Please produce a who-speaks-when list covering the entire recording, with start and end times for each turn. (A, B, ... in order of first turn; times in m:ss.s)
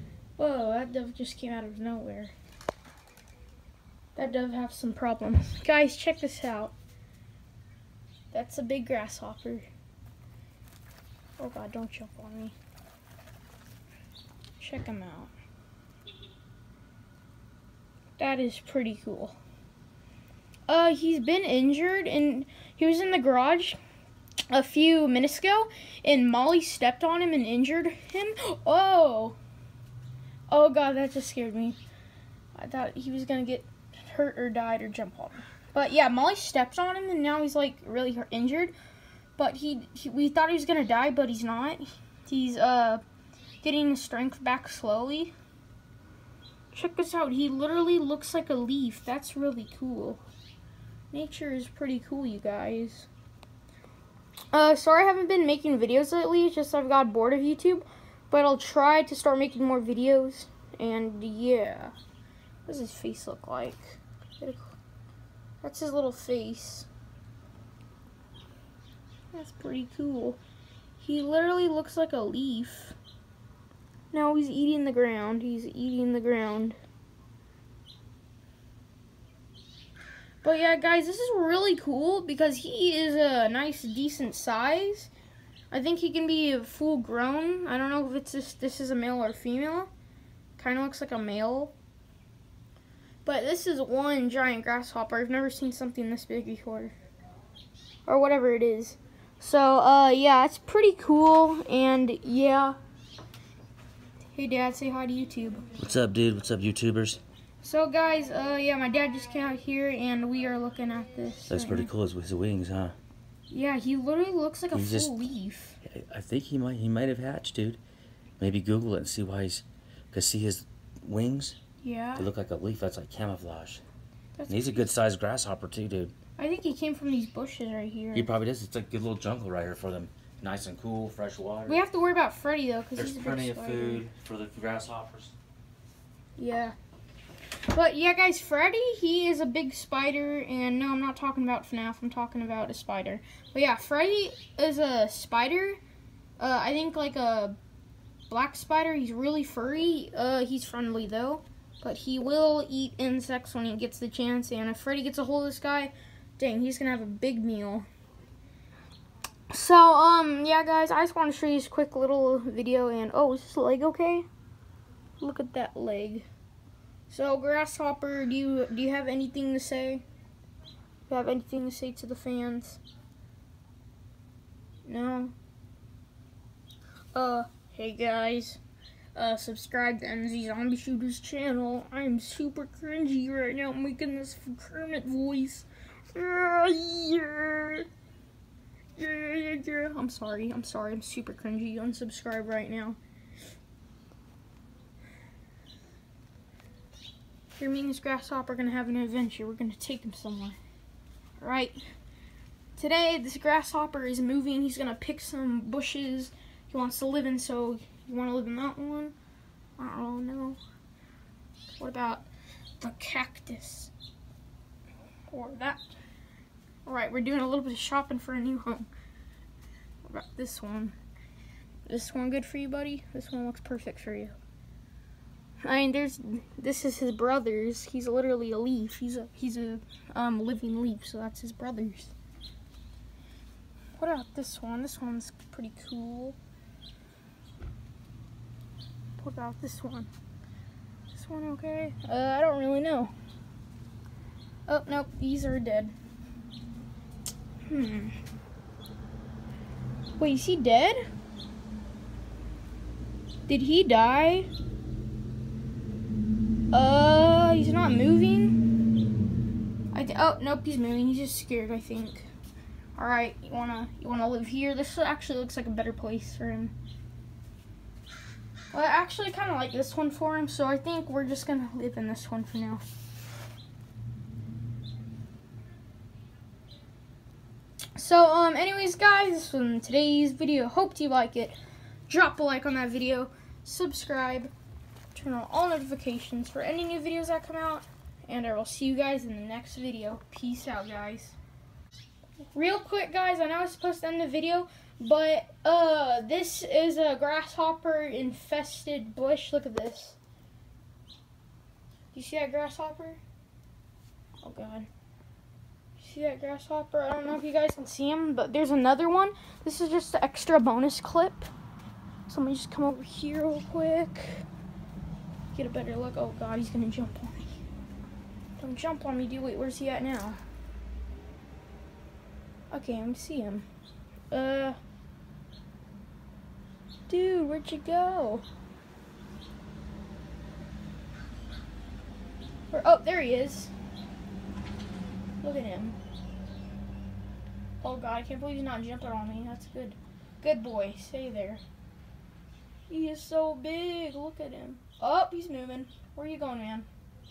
0:00.4-0:02.3 A
0:04.2-0:06.7 A
0:08.3-0:09.7 A
0:11.4-0:12.5 A
0:14.6-0:15.3 A
0:18.2-0:19.4 A
0:20.7-0:23.8 A
0:24.5-0:29.4 A
0:30.5-0:31.8 A
0:32.5-0:38.7 A
0:39.4-0:43.0 A
0:43.6-0:45.3 A
0:46.7-0:50.2 A
0:51.1-0:53.1 A
0:54.5-1:01.9 A
1:02.6-1:04.8 A
1:05.6-1:06.9 A
1:09.3-1:10.4 A
1:11.0-1:13.0 A
1:14.1-1:16.8 A
1:20.4-1:25.1 A
1:25.7-1:29.9 A
1:30.6-1:31.7 A
1:33.2-1:36.9 A
1:38.1-1:42.8 A
1:44.3-1:45.6 A
1:45.8-1:47.2 B
1:47.6-1:51.9 A
1:51.5-1:52.9 B
1:53.5-1:55.8 A
1:54.7-1:55.2 B
1:55.8-1:57.8 B
1:58.4-2:01.6 B
2:01.8-2:02.2 A
2:02.2-2:03.8 B
2:04.4-2:04.8 A
2:04.5-2:06.1 B
2:06.4-2:08.3 A
2:08.1-2:11.8 B
2:11.7-2:14.0 A
2:13.0-2:15.3 B
2:16.4-2:16.7 A
2:17.7-2:25.8 A
2:26.4-2:27.6 A
2:28.3-2:37.8 A
2:39.5-2:44.2 A
2:45.2-2:46.3 A
2:47.1-2:50.0 A
2:51.1-2:52.8 A
2:54.8-2:55.3 A
2:57.1-2:58.6 A
2:59.1-3:07.9 A
3:09.0-3:13.0 A
3:17.6-3:20.6 A
3:21.4-3:21.8 A
3:22.8-3:29.1 A
3:29.8-3:30.6 A
3:31.8-3:32.2 A
3:32.8-3:33.9 A
3:35.3-3:35.9 A
3:36.8-3:38.9 A
3:40.0-3:41.0 A
3:41.9-3:44.4 A
3:45.6-3:52.1 A
3:54.0-3:56.4 A
3:59.2-4:00.1 A
4:01.1-4:03.1 A
4:04.7-4:05.9 A
4:07.7-4:08.1 A
4:10.2-4:11.0 A
4:13.5-4:14.5 A
4:16.7-4:18.6 A
4:19.9-4:22.3 A
4:23.0-4:26.7 A
4:28.7-4:32.8 A
4:38.0-4:41.6 A
4:42.1-4:44.5 A
4:45.1-4:51.4 A
4:52.5-5:00.2 A
5:02.1-5:03.2 A
5:04.4-5:04.9 A
5:06.0-5:11.5 A
5:12.3-5:14.4 A
5:15.5-5:17.6 A
5:18.6-5:20.4 A
5:22.7-5:23.7 A
5:24.3-5:24.8 A
5:27.1-5:28.4 A
5:32.7-5:33.7 A
5:35.4-5:36.0 A
5:37.8-5:41.6 A
5:42.9-5:46.9 A